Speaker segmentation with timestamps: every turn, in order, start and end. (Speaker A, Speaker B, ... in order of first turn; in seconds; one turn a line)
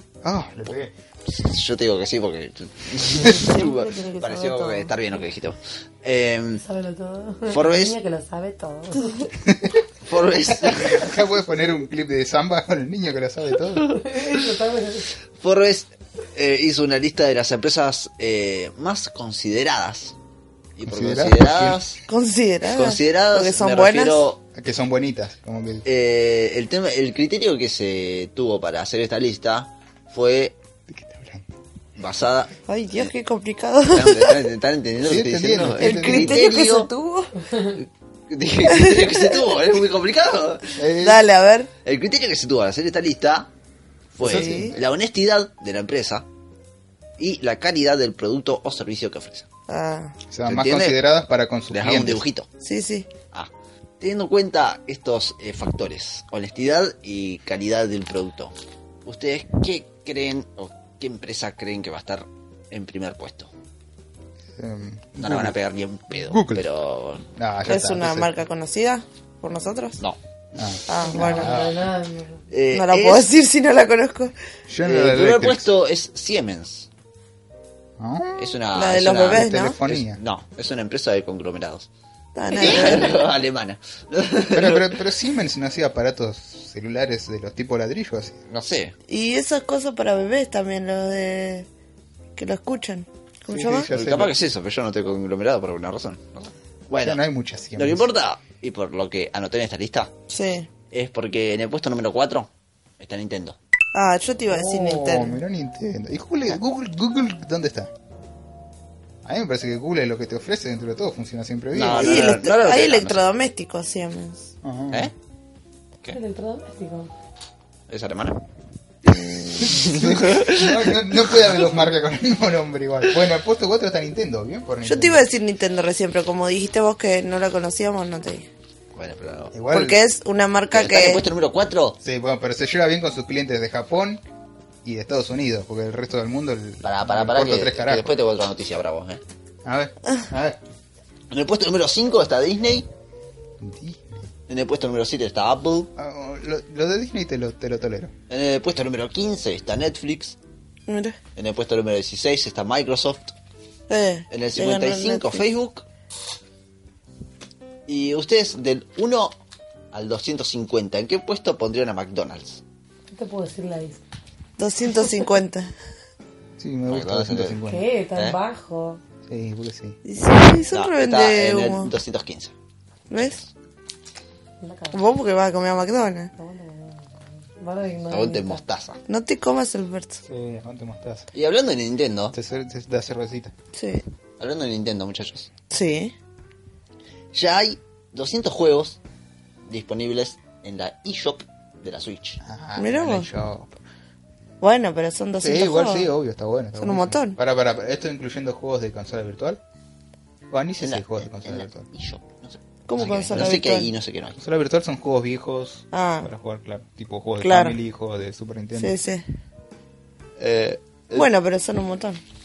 Speaker A: 0.2-0.9
Speaker B: 1.2-6.6
Speaker C: 3.1-4.9
Speaker D: 6.6-9.3
Speaker B: 7.5-8.0
Speaker A: 9.4-9.8
Speaker B: 10.1-11.1
Speaker A: 10.6-13.9
Speaker D: 13.8-15.1
Speaker B: 14.1-14.4
Speaker B: 15.3-20.1
Speaker B: 20.8-22.0
Speaker A: 20.9-21.8
Speaker C: 22.1-24.3
Speaker B: 22.7-24.4
Speaker A: 24.5-25.8
Speaker B: 25.8-30.6
Speaker A: 30.9-31.5
Speaker B: 31.9-33.1
Speaker C: 32.7-34.4
Speaker B: 33.9-36.9
Speaker A: 35.0-36.5
Speaker C: 35.8-37.3
Speaker B: 37.7-40.8
Speaker C: 38.7-39.4
Speaker A: 40.8-41.2
Speaker C: 41.0-41.7
Speaker B: 41.8-43.5
Speaker B: 44.1-46.2
Speaker A: 44.2-44.8
Speaker C: 44.2-44.7
Speaker B: 47.2-49.5
Speaker C: 49.7-50.1
Speaker A: 50.3-52.2
Speaker B: 50.5-51.0
Speaker B: 51.7-52.5
Speaker C: 52.6-53.1
Speaker B: 54.0-58.5
Speaker B: 59.0-63.5
Speaker A: 64.5-65.5
Speaker B: 65.2-67.2
Speaker A: 66.1-66.6
Speaker A: 67.3-68.3
Speaker C: 67.7-70.0
Speaker A: 70.5-71.8
Speaker C: 70.9-71.5
Speaker D: 71.0-72.4
Speaker B: 72.5-73.3
Speaker C: 72.7-74.3
Speaker A: 74.7-75.7
Speaker B: 74.8-76.9
Speaker A: 78.0-78.5
Speaker B: 78.4-81.9
Speaker C: 78.7-79.8
Speaker A: 79.3-80.2
Speaker C: 82.3-83.2
Speaker B: 82.5-85.0
Speaker A: 84.5-88.4
Speaker B: 88.5-88.9
Speaker C: 89.1-91.7
Speaker C: 92.4-93.9
Speaker A: 93.5-94.3
Speaker B: 93.9-97.2
Speaker A: 97.0-98.1
Speaker B: 97.8-100.1
Speaker C: 100.3-100.7
Speaker B: 100.9-102.5
Speaker B: 103.0-103.6
Speaker C: 103.9-105.4
Speaker A: 104.5-107.9
Speaker A: 109.2-112.4
Speaker B: 111.7-113.2
Speaker C: 112.0-114.5
Speaker A: 114.6-115.1
Speaker D: 116.1-117.1
Speaker B: 117.9-118.4
Speaker B: 119.0-121.5
Speaker A: 119.6-125.2
Speaker C: 124.8-128.5
Speaker B: 128.9-129.5
Speaker A: 129.5-130.0
Speaker C: 129.7-131.2
Speaker B: 130.7-132.0
Speaker A: 132.0-134.2
Speaker A: 134.8-138.1
Speaker B: 136.8-139.2
Speaker A: 139.6-140.6
Speaker B: 141.3-142.9
Speaker A: 143.6-144.2
Speaker B: 144.5-145.9
Speaker A: 145.9-148.1
Speaker B: 148.3-150.4
Speaker C: 150.9-151.2
Speaker B: 151.3-153.3
Speaker C: 153.9-155.4
Speaker B: 154.3-155.8
Speaker B: 157.9-159.3
Speaker B: 159.9-162.6
Speaker D: 163.1-164.0
Speaker C: 164.6-165.7
Speaker A: 166.6-167.9
Speaker B: 166.9-167.6
Speaker D: 167.7-169.0
Speaker A: 169.3-170.0
Speaker C: 170.0-171.9
Speaker B: 170.7-172.5
Speaker C: 173.1-173.4
Speaker B: 173.1-173.5
Speaker D: 174.6-174.9
Speaker C: 174.9-176.3
Speaker D: 176.4-178.6
Speaker B: 178.1-179.0
Speaker C: 179.1-180.2
Speaker A: 180.2-181.3
Speaker B: 181.3-182.3
Speaker A: 182.3-183.5
Speaker C: 183.7-184.0
Speaker B: 184.4-185.5
Speaker C: 185.7-186.1
Speaker B: 187.3-189.0
Speaker B: 189.7-192.4
Speaker A: 192.4-193.8
Speaker C: 192.8-193.3
Speaker C: 194.6-196.1
Speaker A: 195.4-199.6
Speaker C: 196.8-197.4
Speaker A: 200.5-201.9
Speaker B: 200.8-204.4
Speaker C: 202.9-203.9
Speaker A: 203.0-203.5
Speaker A: 204.4-208.9
Speaker C: 205.9-206.3
Speaker C: 207.4-207.8
Speaker C: 208.7-209.2
Speaker A: 210.4-211.2
Speaker C: 211.1-212.2